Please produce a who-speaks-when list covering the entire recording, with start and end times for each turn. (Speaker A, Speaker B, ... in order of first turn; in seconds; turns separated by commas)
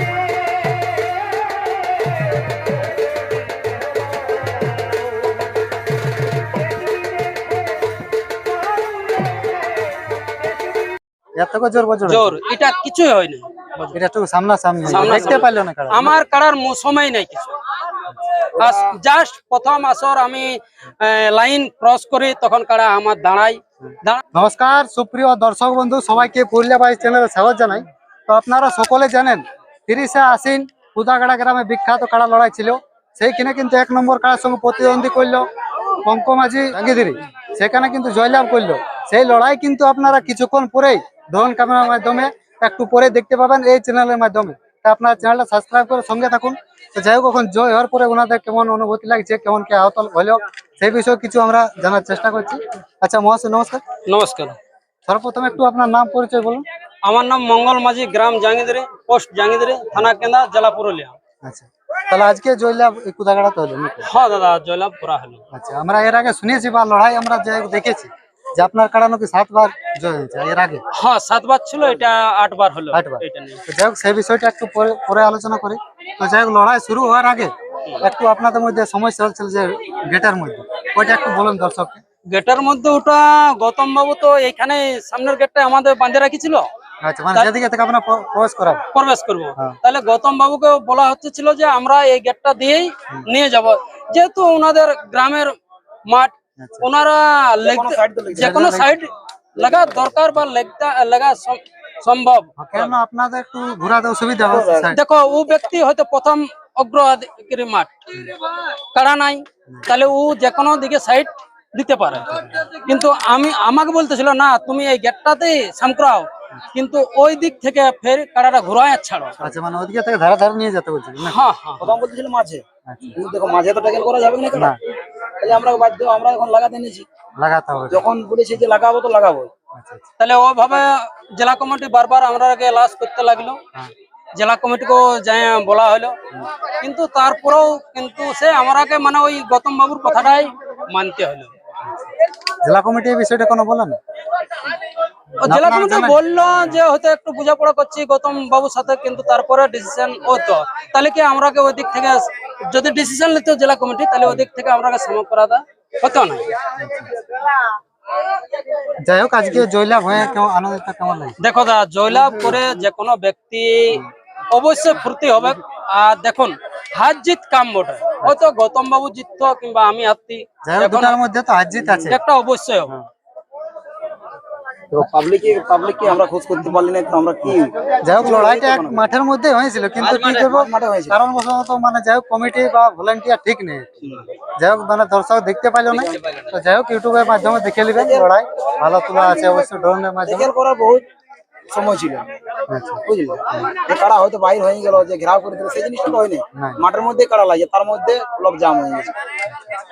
Speaker A: 11.4-12.4, Speaker B: 12.1-14.0, Speaker A: 13.9-16.1, Speaker B: 14.9-17.6, Speaker B: 18.6-24.2, Speaker A: 24.3-35.5, Speaker A: 36.0-53.8, Speaker B: 54.1-54.6, Speaker A: 55.1-56.6, Speaker B: 57.0-61.2, Speaker A: 61.4-64.1, Speaker B: 64.1-65.4, Speaker A: 65.5-70.8, Speaker B: 70.9-73.6, Speaker A: 72.9-82.0, Speaker B: 82.3-86.7, Speaker A: 87.0-88.8, Speaker B: 88.9-95.6, Speaker B: 96.1-103.0, Speaker A: 96.6-96.9, Speaker C: 97.6-98.6, Speaker A: 98.4-99.0, Speaker C: 99.6-100.2, Speaker A: 102.6-105.0, Speaker C: 104.4-104.9, Speaker B: 104.9-119.4, Speaker A: 119.4-121.4, Speaker B: 121.3-122.0, Speaker C: 121.8-122.6, Speaker A: 122.9-123.2, Speaker C: 123.1-127.0, Speaker A: 127.4-128.1, Speaker C: 127.9-129.5, Speaker A: 129.8-130.1, Speaker B: 130.2-133.6, Speaker B: 134.4-136.1, Speaker B: 136.8-141.5, Speaker A: 142.6-144.0, Speaker B: 145.4-156.5, Speaker A: 145.4-146.2, Speaker A: 156.7-157.1, Speaker A: 159.0-161.4, Speaker B: 161.4-171.2, Speaker A: 162.1-162.6, Speaker A: 170.6-172.2, Speaker B: 172.0-172.9, Speaker C: 174.9-179.1, Speaker A: 178.0-190.5, Speaker C: 180.1-181.2, Speaker C: 184.0-184.3, Speaker C: 185.9-186.3, Speaker C: 187.9-188.3, Speaker C: 190.2-191.1, Speaker C: 191.7-192.3, Speaker A: 192.7-193.0, Speaker C: 193.0-199.1, Speaker A: 196.6-196.8, Speaker A: 199.5-199.8